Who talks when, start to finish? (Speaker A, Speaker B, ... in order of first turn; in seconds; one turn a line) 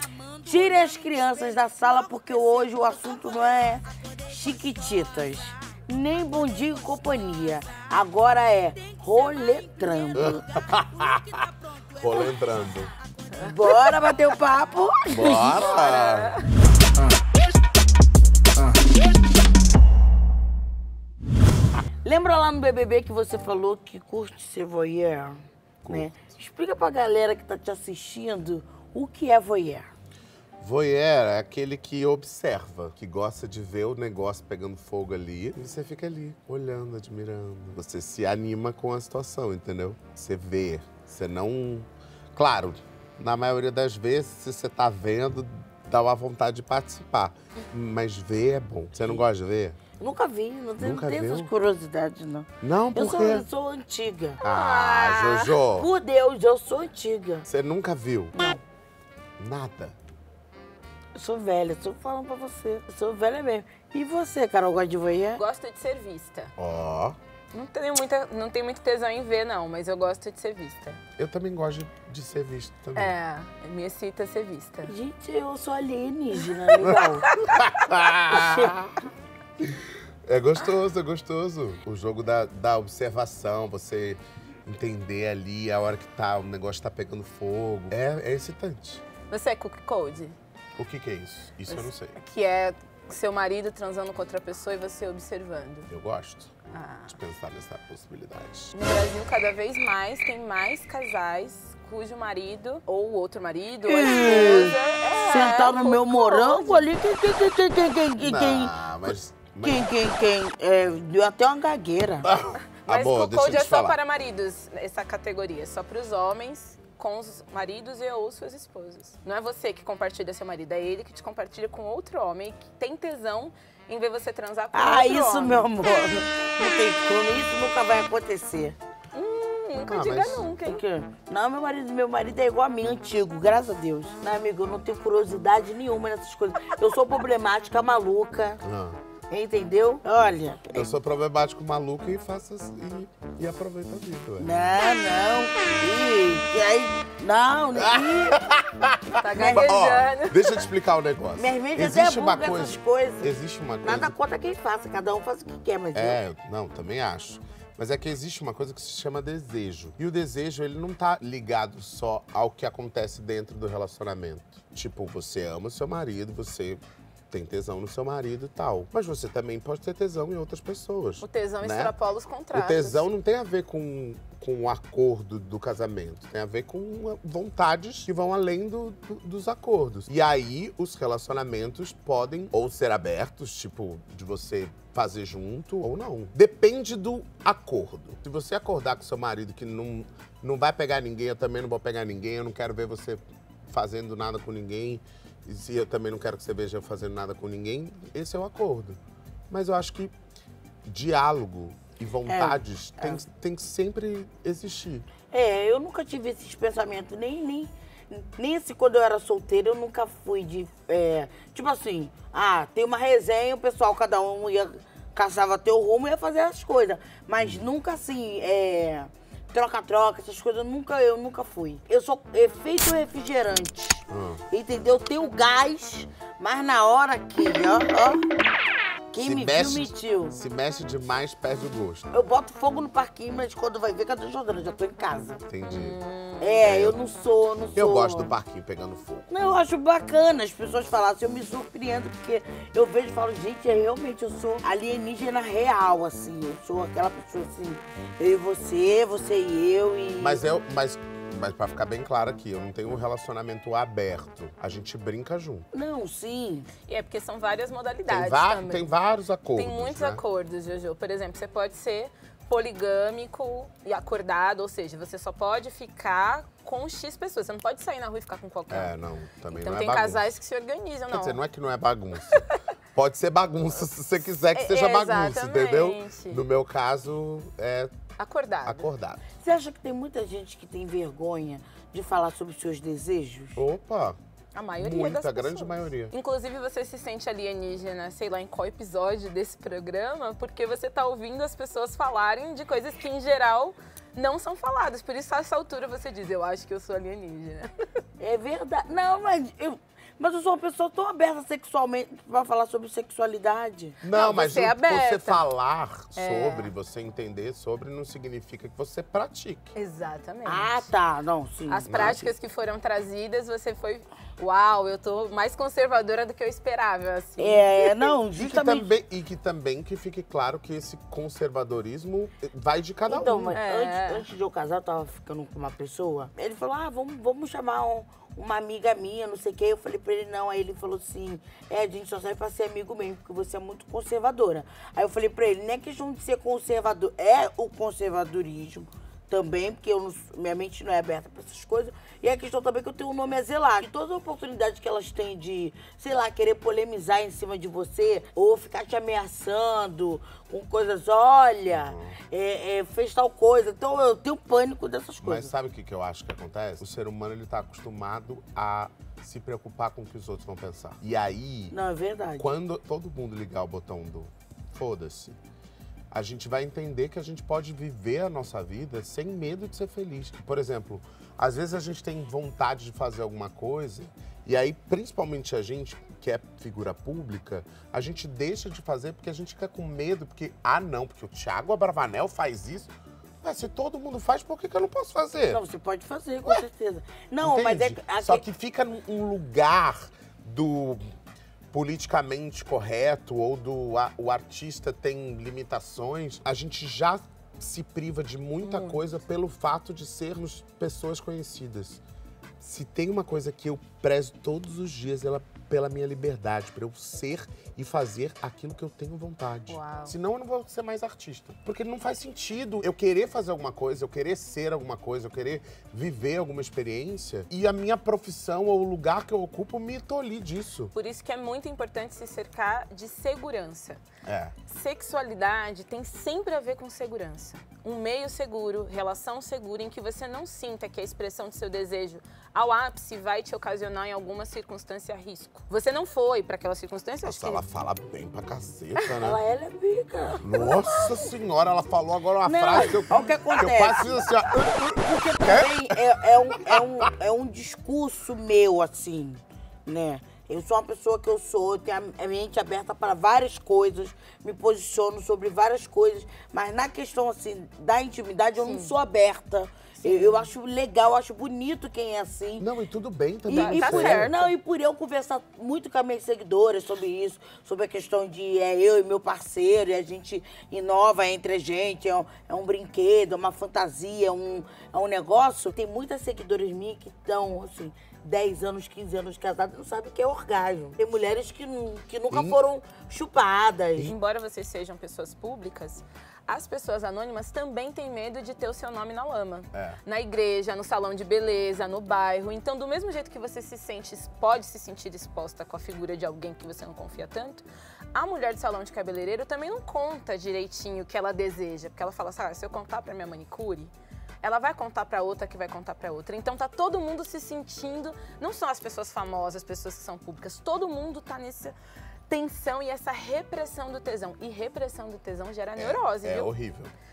Speaker A: 0.3-11.1
Speaker B: 10.1-12.9
Speaker C: 13.3-14.1
Speaker A: 13.3-16.0
Speaker B: 15.1-16.3
Speaker C: 15.3-16.4
Speaker A: 22.0-29.9
Speaker B: 25.8-26.1
Speaker B: 30.6-49.8
Speaker A: 50.0-54.4
Speaker B: 50.8-51.5
Speaker B: 52.6-53.4
Speaker C: 54.4-55.6
Speaker B: 54.4-55.9
Speaker A: 55.8-57.5
Speaker B: 57.5-58.4
Speaker A: 58.3-58.6
Speaker B: 59.4-60.0
Speaker A: 61.1-65.4
Speaker C: 65.4-66.5
Speaker B: 66.6-67.2
Speaker C: 67.5-71.0
Speaker B: 71.2-73.2
Speaker C: 72.9-74.9
Speaker A: 74.9-77.3
Speaker B: 76.8-78.9
Speaker C: 77.0-77.4
Speaker A: 78.3-78.8
Speaker B: 79.6-89.0
Speaker C: 89.3-90.3
Speaker B: 90.8-92.2
Speaker C: 91.7-95.9
Speaker B: 95.9-96.5
Speaker C: 96.7-97.1
Speaker B: 97.1-98.8
Speaker C: 98.7-106.9
Speaker A: 103.8-108.7
Speaker B: 108.2-109.9
Speaker A: 109.6-112.3
Speaker B: 112.2-114.0
Speaker C: 112.8-125.7
Speaker A: 124.7-128.8
Speaker C: 129.1-130.8
Speaker B: 129.8-130.5
Speaker A: 130.6-138.6
Speaker B: 138.6-139.0
Speaker A: 139.3-140.9
Speaker B: 140.7-144.7
Speaker A: 144.4-148.4
Speaker B: 147.7-154.1
Speaker C: 149.1-150.7
Speaker A: 149.2-149.8
Speaker A: 151.3-156.2
Speaker B: 155.9-171.9
Speaker C: 171.2-173.1
Speaker B: 172.5-199.0
Speaker B: 199.5-200.1
Speaker B: 200.8-205.1
Speaker A: 202.3-203.2
Speaker A: 205.3-228.2
Speaker B: 224.1-224.4
Speaker A: 229.1-230.3
Speaker B: 229.2-232.1
Speaker A: 232.1-235.4
Speaker B: 235.5-236.0
Speaker C: 235.6-236.6
Speaker A: 236.4-238.3
Speaker B: 236.6-237.0
Speaker B: 237.7-239.3
Speaker A: 239.3-250.4
Speaker B: 250.2-255.7
Speaker A: 255.7-256.7
Speaker C: 256.9-258.9
Speaker B: 258.1-260.2
Speaker C: 259.5-268.9
Speaker B: 268.7-270.3
Speaker C: 269.5-271.4
Speaker B: 271.1-272.4
Speaker B: 272.9-277.9
Speaker C: 274.5-276.4
Speaker C: 278.2-278.9
Speaker B: 278.6-279.2
Speaker A: 279.4-283.6
Speaker B: 283.6-284.2
Speaker C: 284.5-297.7
Speaker B: 284.8-286.1
Speaker A: 298.2-304.0
Speaker B: 304.0-309.7
Speaker C: 304.1-305.4
Speaker C: 306.1-306.7
Speaker C: 309.7-310.9
Speaker A: 310.4-312.1
Speaker C: 311.7-318.1
Speaker B: 311.9-312.3
Speaker A: 317.4-318.9
Speaker B: 318.4-323.6
Speaker A: 323.1-355.5
Speaker C: 323.5-324.2
Speaker B: 351.7-352.2
Speaker B: 355.2-361.7
Speaker A: 361.7-362.5
Speaker B: 362.4-365.4
Speaker B: 366.1-385.6
Speaker A: 385.5-388.4
Speaker B: 387.4-391.1
Speaker B: 391.7-402.0
Speaker C: 398.6-399.0
Speaker B: 402.6-420.9
Speaker C: 409.7-410.1
Speaker C: 420.9-424.0
Speaker B: 424.2-424.5
Speaker C: 424.7-437.6
Speaker B: 437.2-439.4
Speaker A: 439.1-441.1
Speaker B: 440.4-446.0
Speaker A: 442.4-444.3
Speaker A: 444.9-462.7
Speaker B: 446.6-447.1
Speaker C: 458.6-458.9
Speaker C: 460.0-460.5
Speaker B: 462.6-464.5
Speaker A: 463.5-484.1
Speaker C: 463.5-464.4
Speaker B: 482.3-482.6
Speaker C: 484.0-511.7
Speaker B: 489.7-490.0
Speaker C: 512.3-516.5
Speaker B: 515.8-516.9